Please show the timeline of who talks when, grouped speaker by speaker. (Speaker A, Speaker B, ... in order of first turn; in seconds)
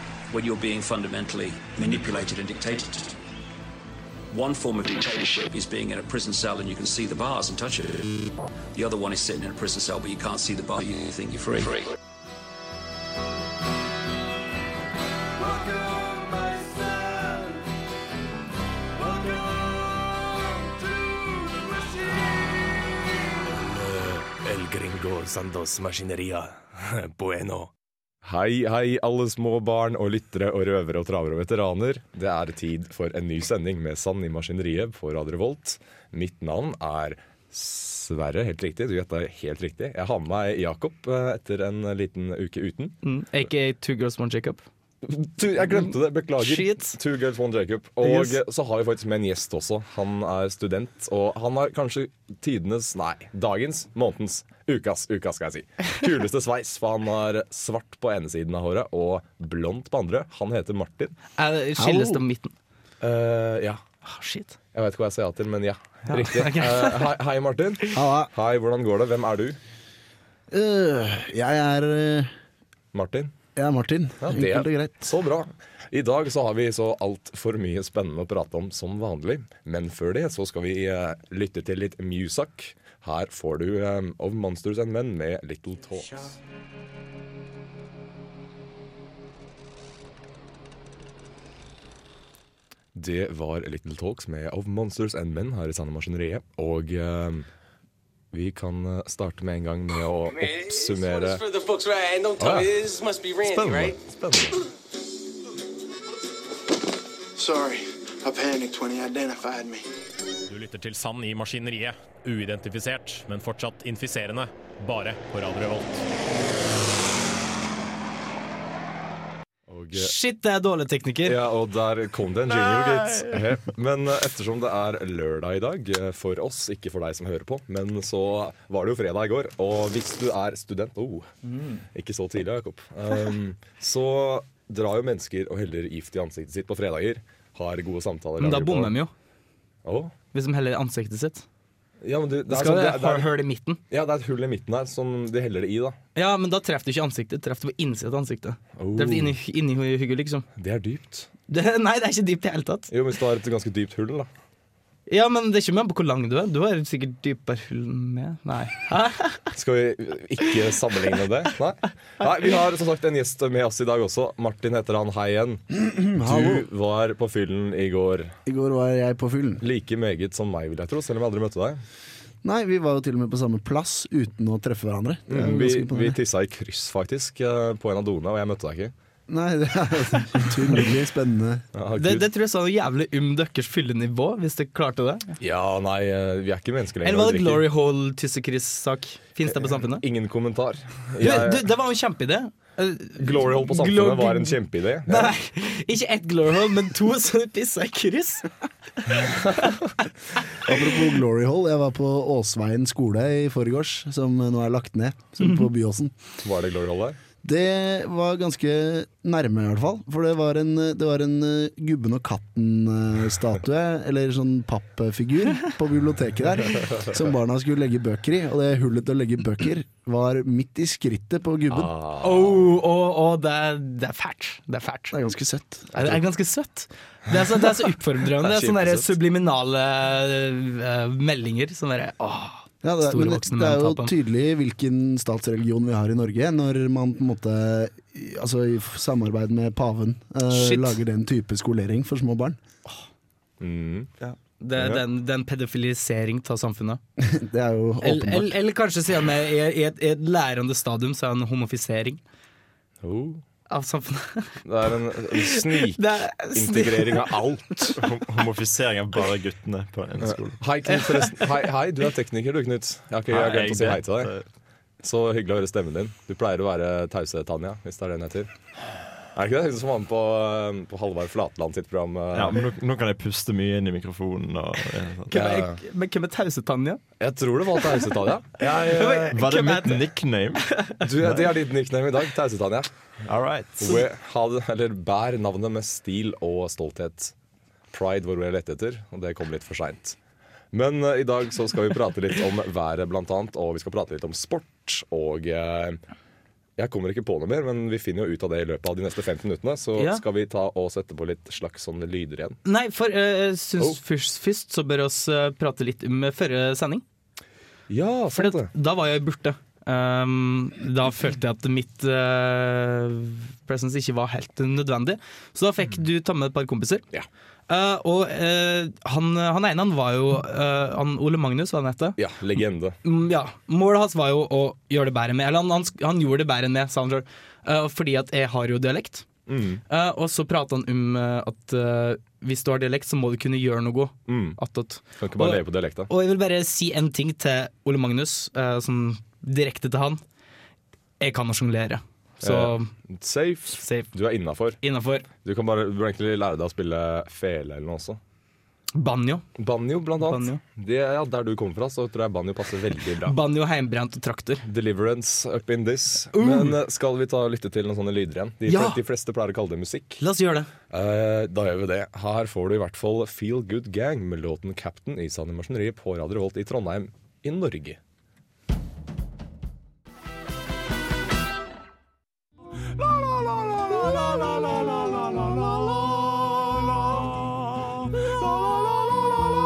Speaker A: 0.3-3.2, 4.3-11.9
Speaker B: 23.6-27.7, 28.2-43.0, 45.0-61.1, 63.0-63.8, 64.7-69.6, 72.9-73.3, 74.2-86.3, 92.9-97.5, 98.3-101.4, 102.4-102.8, 103.4-104.5, 119.7-120.1, 121.2-131.3, 131.9-138.9, 139.8-140.1, 142.0-143.3, 143.9-146.0, 148.8-149.3, 150.6-151.3, 152.9-154.3, 159.5-165.6, 166.2-168.3, 169.6-171.8, 175.3-178.9, 181.7-182.3, 185.4-187.6, 189.6-191.7, 193.2-195.3, 199.1-199.7, 206.4-207.2, 221.7-222.6, 228.3-229.1, 243.6-244.1, 244.8-245.0, 253.0-253.4, 254.6-258.0, 260.2-264.3, 265.0-268.5, 269.3-272.6, 275.3-275.7, 277.2-279.3, 281.0-282.9, 283.8-287.3, 287.9-290.1, 290.7-296.0, 296.8-302.6, 307.9-308.7, 322.2-323.0, 329.5-329.8, 334.3-334.6, 335.1-336.1, 342.4-344.8, 345.4-348.2, 349.6-353.4, 354.6-360.2, 360.9-368.0
Speaker C: 43.0-44.6, 45.7-47.0, 48.0-48.4, 61.4-62.5, 64.0-64.6, 66.1-67.1, 119.9-121.4, 138.4-139.1, 140.3-141.4, 142.5-143.8, 146.1-150.5, 151.5-152.9, 155.1-159.5, 181.9-185.3, 187.0-190.0, 191.2-198.5, 199.1-199.7, 222.2-225.1, 225.9-234.1, 240.5-241.0, 244.2-247.0, 248.0-252.2, 253.7-254.6, 255.3-257.9, 261.0-261.4, 275.3-277.0, 278.6-280.1, 280.7-281.0, 300.0-300.2, 302.6-307.0, 308.3-317.0, 317.7-322.2, 323.0-329.2, 329.9-340.2, 341.2-342.9, 343.8-344.1, 344.8-345.2, 348.9-349.4, 350.2-350.6, 353.2-354.6, 356.3-356.8, 358.7-359.0, 360.2-360.7
Speaker D: 61.8-62.2, 67.9-68.3, 70.5-72.3, 73.5-75.0, 165.7-166.7, 168.4-169.6, 172.4-176.2, 179.3-181.7, 200.6-206.1, 207.4-221.9, 225.1-225.9, 232.8-242.6, 247.2-248.5
Speaker E: 100.2-104.0
Speaker F: 107.4-109.8
Speaker G: 110.5-116.0
Speaker H: 258.0-260.6, 263.3-264.4, 272.3-275.3, 279.1-280.7, 283.2-284.0